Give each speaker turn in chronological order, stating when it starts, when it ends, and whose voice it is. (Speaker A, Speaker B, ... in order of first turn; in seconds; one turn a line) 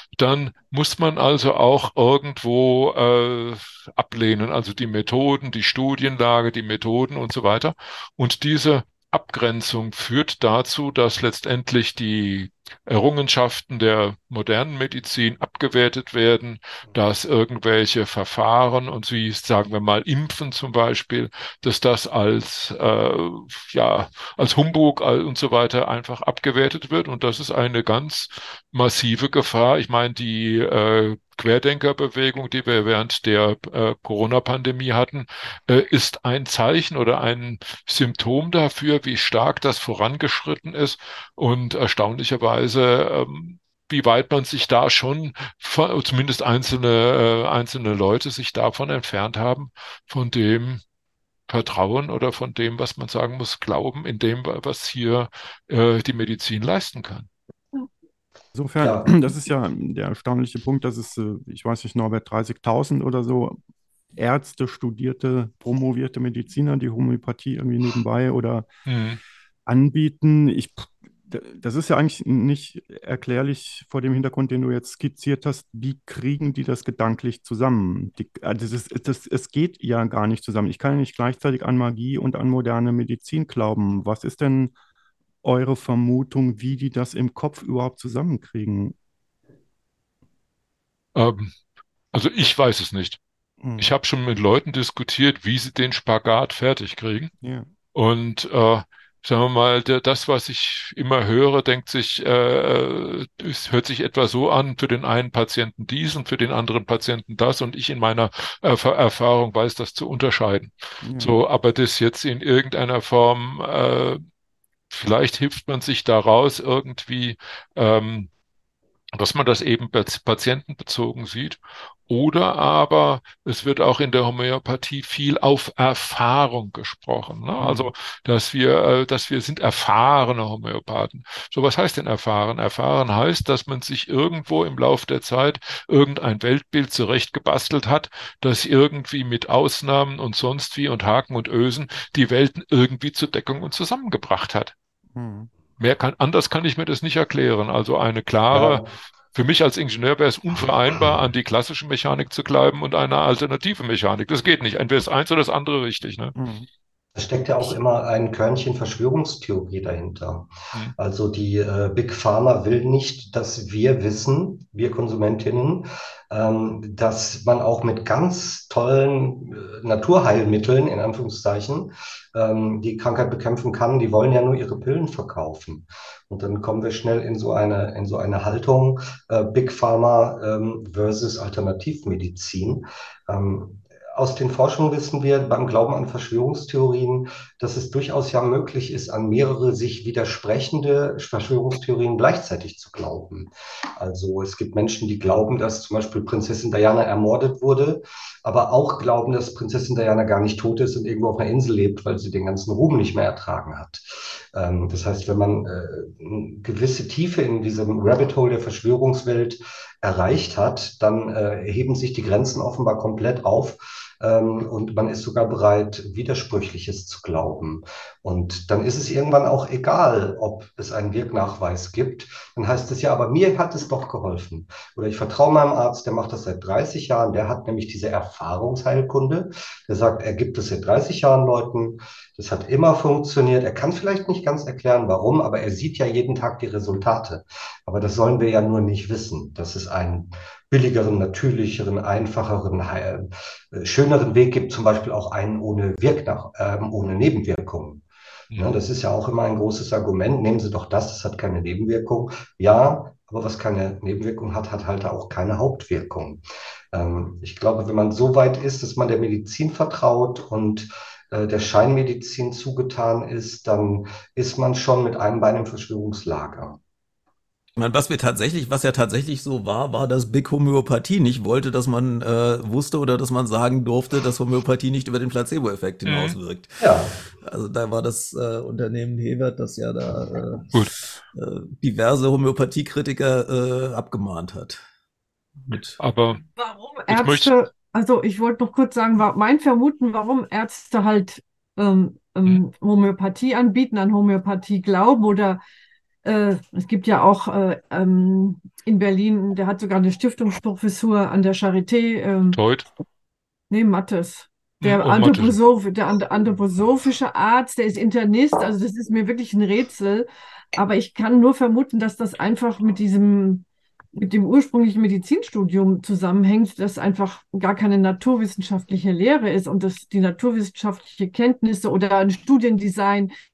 Speaker A: 0.2-50.8
Speaker A: 51.5-57.3
Speaker B: 58.5-63.6
Speaker C: 58.8-59.1
Speaker B: 64.2-68.7
Speaker A: 68.9-69.2
Speaker B: 69.7-84.7
Speaker B: 85.4-89.0
Speaker A: 91.2-91.5
Speaker A: 92.1-93.2
Speaker B: 93.6-93.9
Speaker A: 93.8-97.3
Speaker B: 97.4-97.7
Speaker A: 97.9-114.2
Speaker B: 111.0-111.4
Speaker A: 114.9-118.3
Speaker A: 119.1-144.7
Speaker B: 127.6-127.9
Speaker B: 145.2-145.5
Speaker A: 145.8-156.3
Speaker C: 148.5-148.9
Speaker B: 156.3-156.7
Speaker C: 157.2-266.8
Speaker D: 267.8-276.8
Speaker A: 276.1-276.4
Speaker C: 276.8-277.2
Speaker D: 277.4-284.8
Speaker D: 285.7-286.0
Speaker A: 285.7-286.4
Speaker E: 286.6-295.6
Speaker A: 287.1-287.5
Speaker E: 296.2-302.6
Speaker A: 302.5-302.9
Speaker E: 303.7-323.3
Speaker A: 304.8-305.6